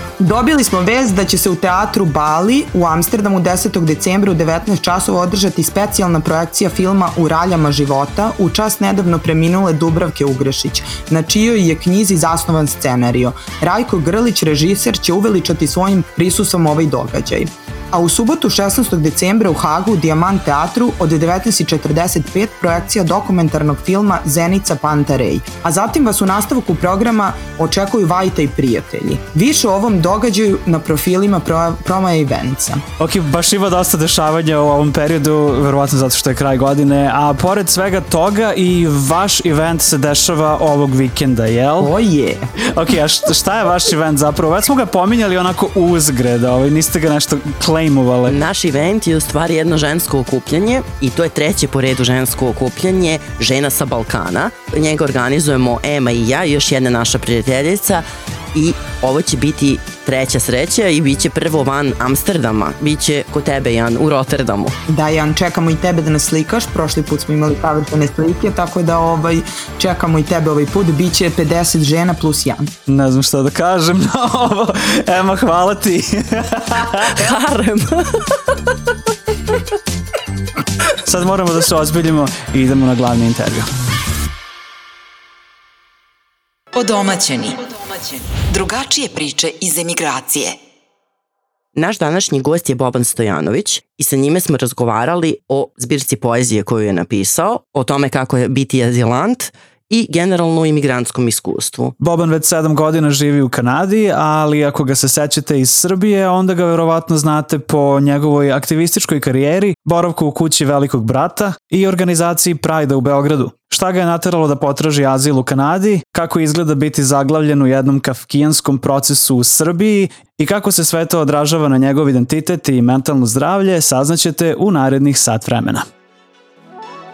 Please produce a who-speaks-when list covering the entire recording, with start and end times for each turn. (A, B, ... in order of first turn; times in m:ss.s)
0:00.2-0:32.8 A
0:33.0-0:41.9 B
0:41.8-0:42.5 A
0:42.7-0:48.4 B
0:48.3-1:04.7 C
1:04.9-1:12.7 A
1:12.9-1:17.1 B
1:17.1-1:18.4 C
1:21.0-1:23.7 B
1:26.7-1:30.6 D
1:31.7-1:41.9 C
1:42.0-2:05.8 B